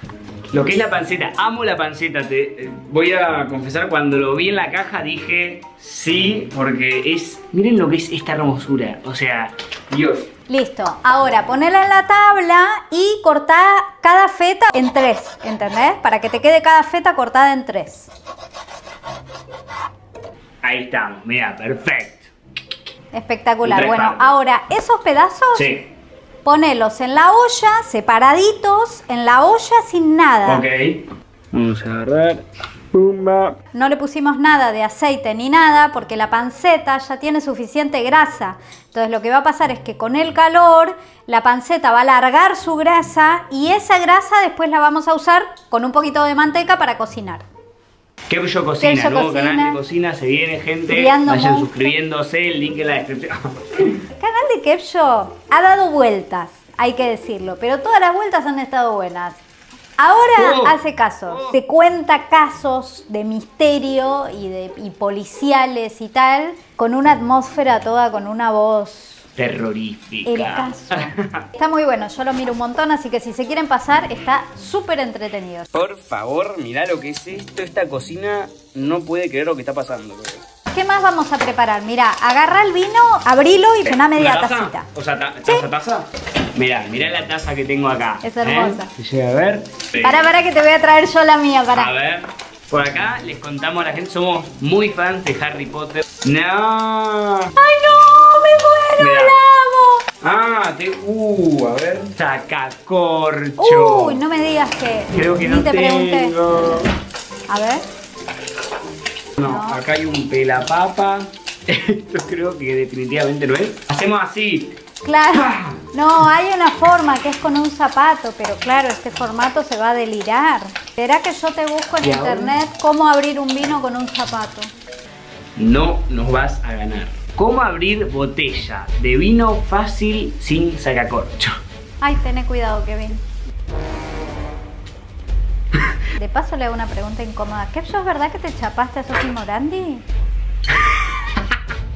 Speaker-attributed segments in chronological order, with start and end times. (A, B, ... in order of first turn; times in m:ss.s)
0:00.5-0:10.3 A
0:10.5-0:18.1 B
0:20.6-0:22.3 A
0:23.1-0:25.7 B
0:23.6-0:24.4 A
0:25.5-0:25.8 A
0:26.4-0:30.6 B
0:30.4-0:33.6 A
0:33.7-0:47.4 B
0:48.3-0:54.0 A
0:48.8-0:49.8 B
0:50.9-0:51.7 B
0:54.2-0:59.4 B
1:00.0-1:09.2 B
1:00.4-1:00.8 A
1:01.3-1:01.6 A
1:09.4-1:11.4 A
1:10.2-1:15.7 B
1:15.7-1:20.4 A
1:20.7-1:24.9 B
1:23.8-1:30.2 A
1:28.2-1:28.9 B
1:30.0-1:31.9 B
1:31.7-1:37.5 A
1:37.6-1:40.0 B
1:39.0-1:39.3 A
1:40.2-1:44.2 A
1:43.6-1:46.4 B
1:45.1-1:46.9 A
1:47.5-1:47.8 B
1:49.4-1:54.8 A
1:49.4-1:49.8 B
1:55.0-2:04.7 B
1:55.3-1:55.8 A
2:02.0-2:02.6 A
2:05.6-2:11.5 A
2:12.0-2:13.2 B
2:16.1-2:20.0 B
2:20.8-2:21.2 A